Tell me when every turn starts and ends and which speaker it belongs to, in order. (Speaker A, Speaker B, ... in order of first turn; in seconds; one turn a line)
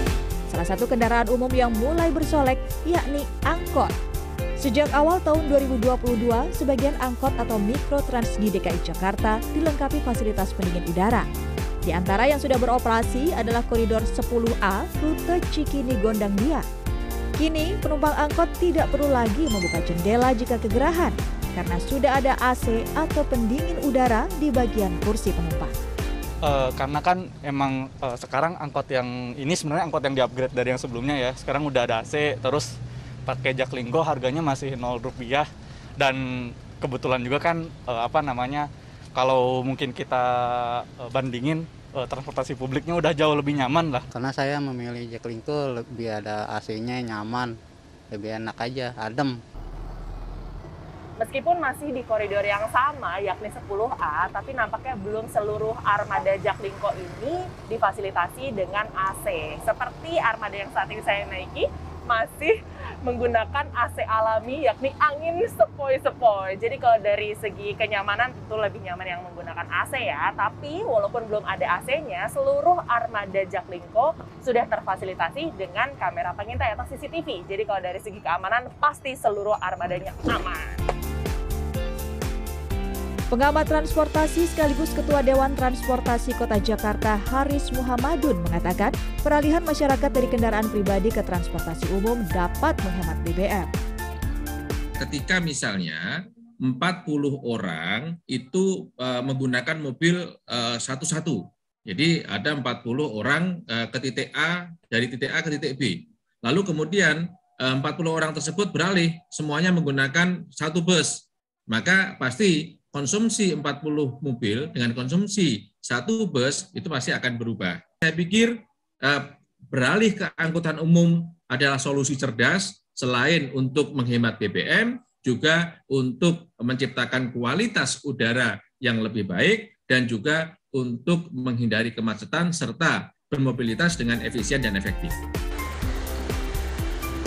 Speaker A: 0.5-3.9
Speaker A: 4.6-11.3
Speaker A: 11.8-16.6
Speaker A: 17.4-25.7
Speaker B: 26.4-32.7
Speaker B: 33.2-35.5
Speaker B: 36.0-44.0
Speaker C: 44.1-47.5
Speaker C: 48.1-49.3
Speaker D: 51.2-80.8
Speaker A: 83.3-93.7
Speaker E: 95.0-96.1
Speaker E: 96.6-135.1